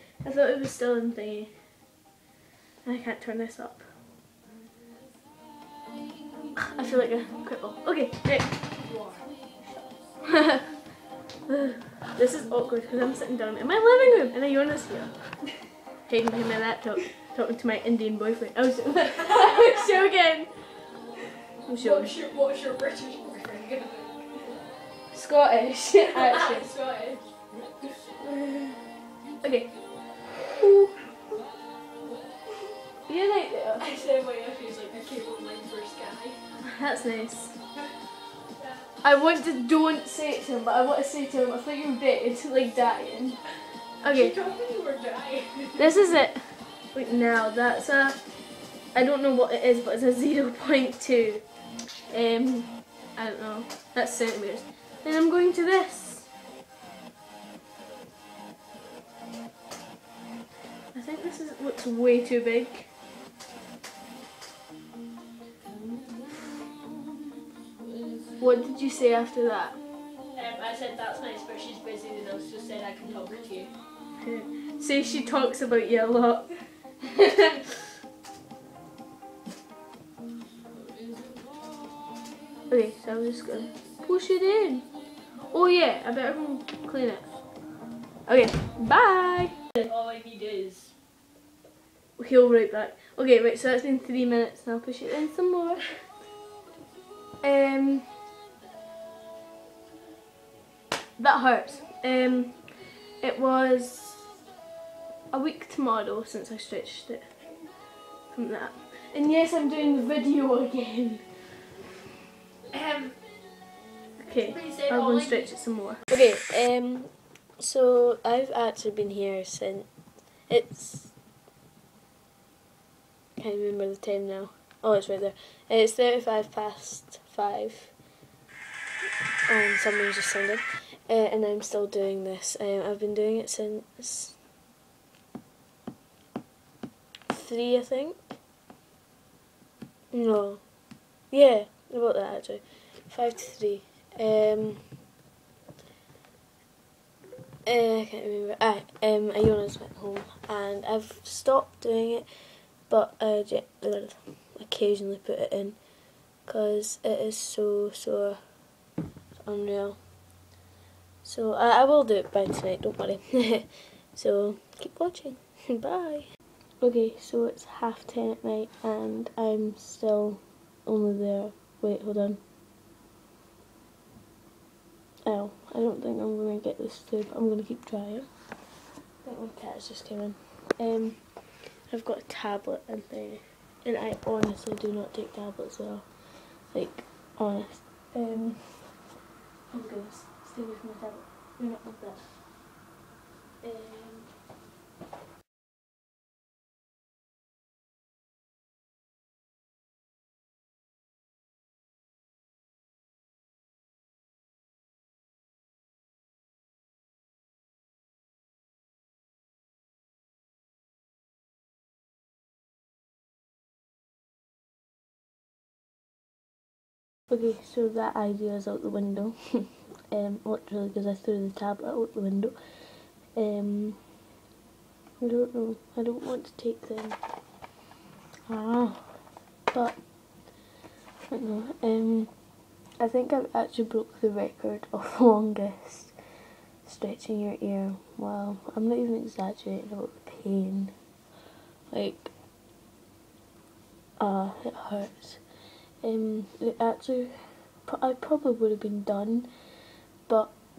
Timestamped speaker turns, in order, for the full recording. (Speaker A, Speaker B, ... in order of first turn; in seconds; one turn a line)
Speaker A: 0.2-1.5
Speaker A: 2.8-3.9
Speaker A: 6.5-8.7
Speaker B: 8.8-9.3
Speaker A: 10.3-10.7
Speaker A: 11.5-15.2
Speaker A: 16.1-20.5
Speaker A: 21.6-22.1
Speaker B: 21.8-24.5
Speaker A: 25.1-26.7
Speaker B: 26.0-27.8
Speaker A: 28.2-28.7
Speaker A: 29.4-29.7
Speaker A: 30.4-31.1
Speaker A: 33.1-33.8
Speaker B: 33.8-36.4
Speaker A: 36.6-37.5
Speaker A: 39.0-43.4
Speaker A: 44.0-44.4
Speaker B: 44.1-46.0
Speaker A: 45.8-48.2
Speaker A: 48.9-51.4
Speaker A: 52.1-56.3
Speaker A: 60.9-62.9
Speaker A: 68.4-69.8
Speaker B: 70.3-73.7
Speaker A: 74.2-77.7
Speaker A: 82.7-84.9
Speaker A: 85.5-87.3
Speaker A: 88.2-89.7
Speaker B: 89.8-90.9
Speaker A: 92.2-96.0
Speaker A: 97.4-98.1
Speaker A: 101.2-102.7
Speaker A: 103.2-104.2
Speaker A: 105.3-107.3
Speaker A: 108.3-111.3
Speaker B: 112.7-113.2
Speaker A: 114.2-119.9
Speaker B: 114.5-115.7
Speaker A: 120.5-121.2
Speaker A: 123.4-128.0
Speaker A: 129.5-134.4
Speaker A: 137.3-138.4
Speaker A: 140.1-140.6
Speaker A: 141.3-145.0
Speaker A: 147.6-152.3
Speaker A: 152.9-155.8
Speaker A: 156.4-158.4
Speaker A: 159.4-160.0
Speaker A: 161.2-166.2
Speaker A: 166.8-172.4
Speaker A: 175.2-178.3
Speaker A: 179.2-181.2
Speaker A: 181.9-186.1
Speaker A: 186.7-189.0
Speaker A: 189.7-192.4
Speaker A: 193.6-194.3
Speaker A: 217.3-222.6
Speaker A: 223.3-224.2
Speaker A: 225.2-227.2
Speaker A: 228.5-229.2
Speaker A: 229.7-230.0
Speaker A: 231.3-232.3
Speaker A: 233.0-236.1
Speaker A: 236.8-240.9
Speaker A: 241.9-242.3
Speaker A: 244.2-245.4
Speaker A: 246.0-249.5
Speaker A: 250.2-250.6